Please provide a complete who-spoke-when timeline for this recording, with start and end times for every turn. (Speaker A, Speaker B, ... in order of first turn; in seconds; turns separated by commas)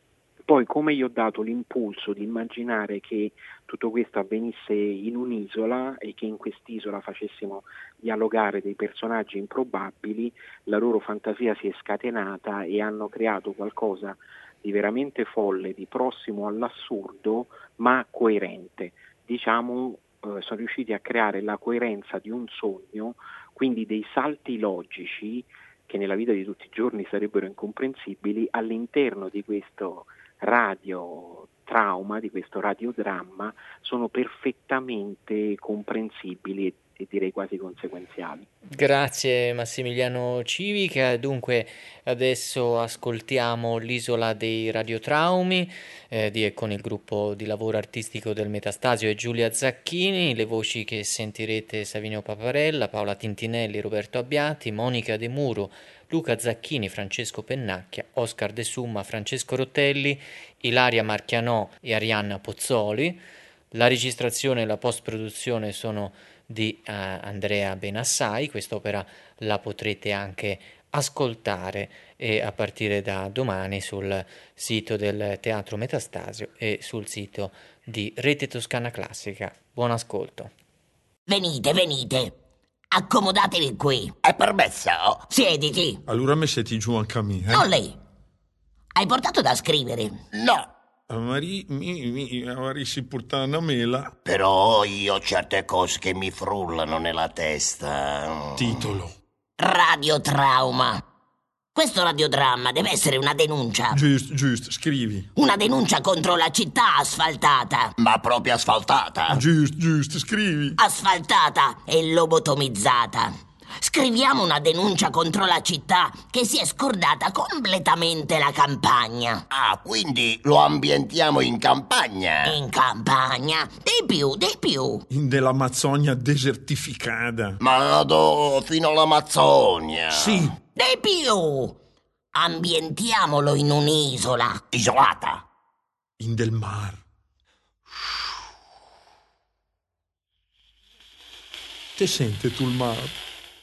Speaker A: 0.5-38.5, Speaker B: 38.7-63.2, Speaker B: 63.7-80.5, Speaker C: 81.3-82.3, Speaker C: 82.9-84.1, Speaker D: 84.2-85.2, Speaker C: 85.3-86.0, Speaker E: 86.1-87.7, Speaker C: 87.5-88.0, Speaker C: 89.0-90.2, Speaker D: 90.3-90.7, Speaker E: 91.1-94.1, Speaker D: 94.2-98.8, Speaker E: 98.6-99.1, Speaker C: 99.6-101.0, Speaker C: 101.8-104.0, Speaker E: 103.9-105.3, Speaker C: 105.4-107.9, Speaker D: 108.0-109.4, Speaker E: 109.3-110.8, Speaker C: 110.8-119.4, Speaker D: 119.5-122.6, Speaker C: 122.4-125.0, Speaker E: 125.1-127.6, Speaker D: 127.6-130.5, Speaker E: 130.1-130.6, Speaker C: 130.7-131.8, Speaker C: 132.3-134.6, Speaker D: 134.7-135.4, Speaker E: 136.2-137.0, Speaker E: 142.0-143.2